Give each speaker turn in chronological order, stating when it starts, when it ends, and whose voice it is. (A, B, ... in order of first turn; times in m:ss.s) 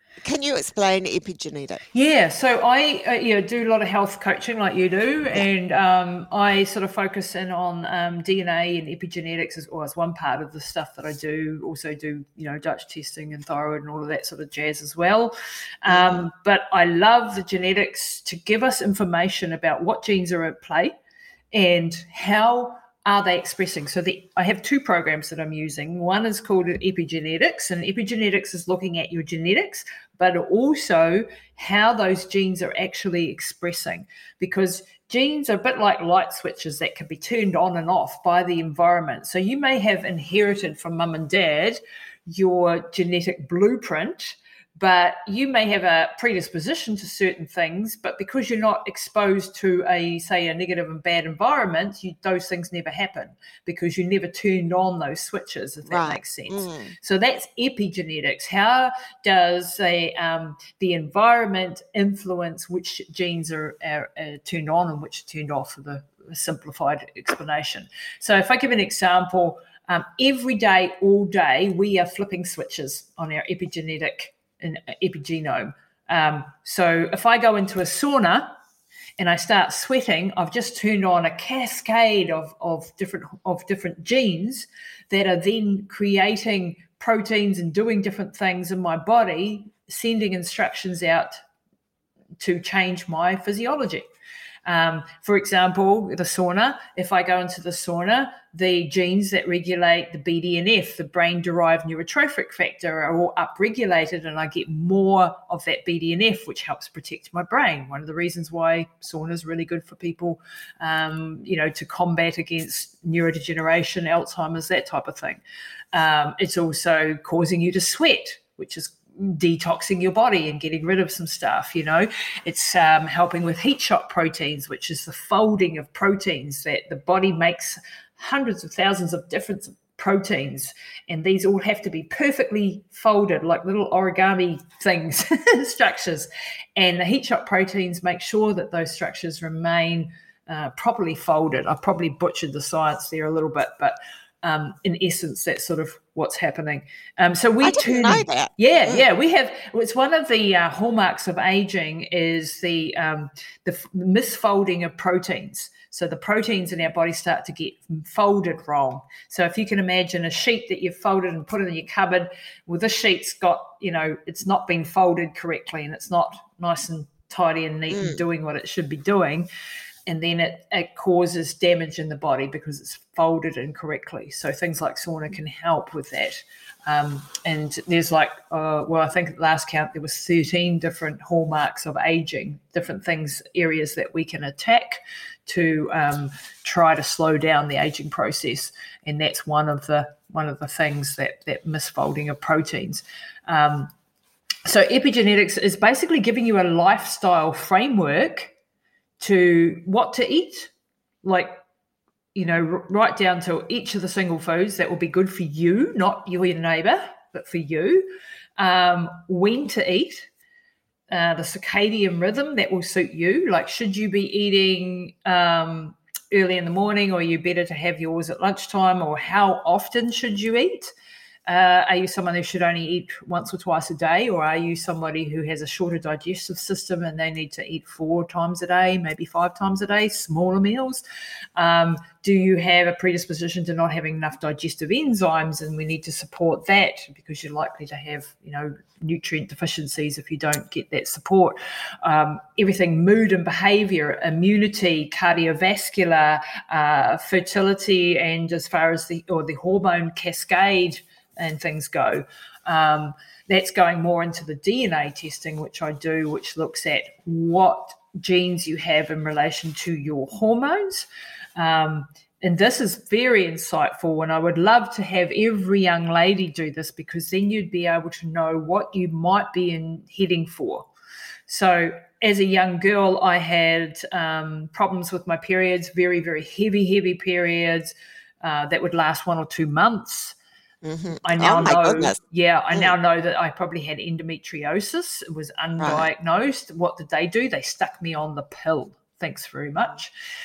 0:00.2-0:01.8 A
0:01.9-0:20.9 B
0:15.9-0:16.2 A
0:21.5-1:18.5 B
0:55.8-0:56.9 A
1:19.2-1:31.4 B
1:32.4-1:34.1 B
1:34.6-1:55.4 B
1:55.9-2:49.5 B
2:27.6-2:29.0 A
2:47.9-2:48.2 A
2:50.1-3:13.9 B
3:14.6-3:18.5 B
3:19.2-3:20.7 B
3:21.2-3:21.5 B
3:22.3-3:30.3 B
3:31.1-3:40.9 B
3:41.4-3:51.0 B
3:51.6-4:30.9 B
4:31.5-4:40.4 B
4:40.8-4:42.2 A
4:41.2-4:50.1 B
4:45.8-4:46.1 A